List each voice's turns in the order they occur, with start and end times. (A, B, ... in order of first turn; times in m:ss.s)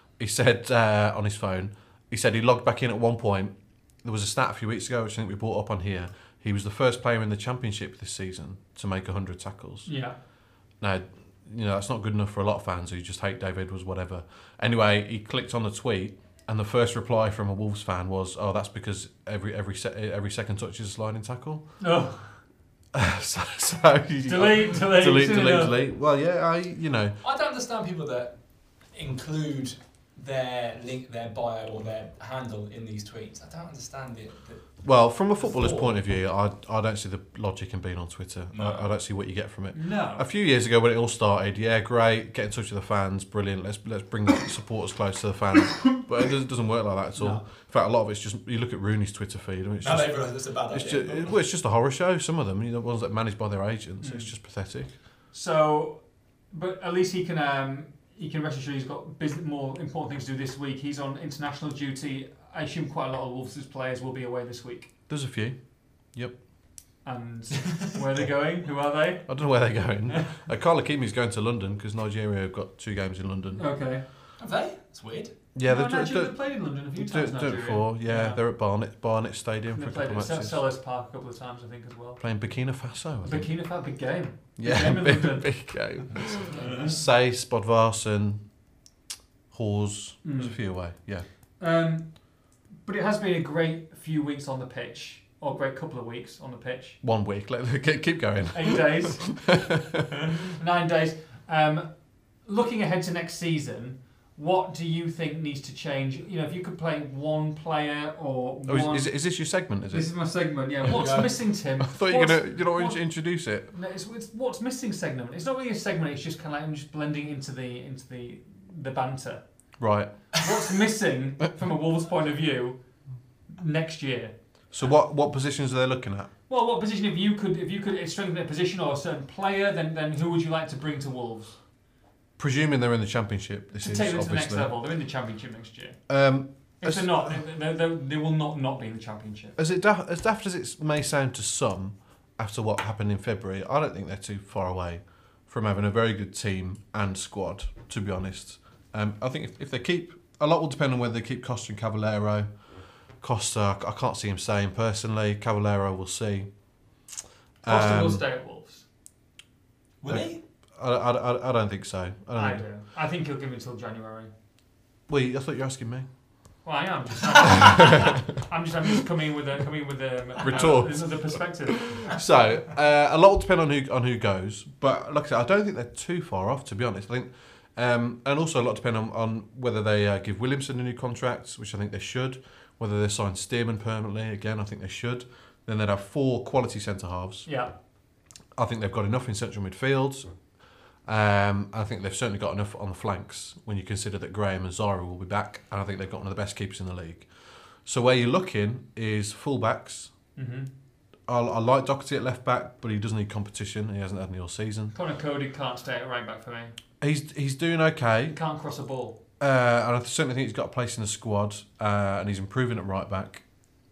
0:00.2-0:09.9 A
0:09.9-0:10.2 B
0:10.8-0:21.6 A
0:21.8-0:22.3 B
0:22.9-0:27.2 A
0:24.3-0:25.8 B
0:27.2-0:28.4 C
0:28.9-0:34.8 C
0:34.8-0:54.9 A
0:35.4-0:36.0 C
0:38.5-0:38.9 C
0:39.7-0:40.2 B
0:47.2-0:47.4 B
0:49.8-0:51.4 C
0:54.0-0:54.3 B
0:55.3-1:04.9 B
1:05.1-1:05.6 A
1:07.0-1:09.3 B
1:09.3-1:13.6 A
1:10.1-1:10.4 B
1:13.6-1:14.0 B
1:14.4-1:15.4 C
1:15.6-1:20.6 A
1:15.6-1:18.4 B
1:19.7-1:22.2 B
1:22.2-1:23.5 A
1:23.2-1:25.5 B
1:24.6-1:28.4 A
1:26.1-1:27.0 C
1:26.5-1:26.9 B
1:29.5-1:31.2 A
1:30.2-1:30.6 B
1:31.6-1:32.2 B
1:32.8-1:37.0 B
1:37.0-1:40.4 A
1:38.5-1:39.5 B
1:40.2-1:41.9 B
1:42.4-1:49.1 B
1:48.7-1:50.1 A
1:49.9-1:53.1 B
1:51.0-1:51.4 C
1:51.8-1:53.7 A
1:53.7-1:59.4 B
1:59.8-2:00.1 A
2:00.3-2:02.8 B
2:03.5-2:04.3 B
2:04.7-2:06.3 A
2:06.5-2:11.6 B
2:12.4-2:14.7 A
2:13.8-2:16.0 B
2:16.1-2:17.4 A
2:16.8-2:19.6 B
2:19.6-2:32.5 A
2:33.2-2:36.5 A
2:37.6-2:38.2 A
2:37.7-2:38.8 B
2:40.0-2:40.4 C
2:40.1-2:42.6 A
2:42.4-2:44.3 B
2:45.1-2:46.1 A
2:46.6-2:52.2 B
2:47.4-2:48.2 A
2:50.4-3:07.5 A
3:07.5-3:07.7 B
3:08.6-3:10.3 A
3:11.0-3:17.3 A
3:17.8-3:20.1 A
3:20.4-3:20.7 B
3:21.3-3:24.9 A
3:24.9-3:26.8 B
3:27.0-3:28.4 A
3:28.3-3:29.2 B
3:29.4-3:33.4 A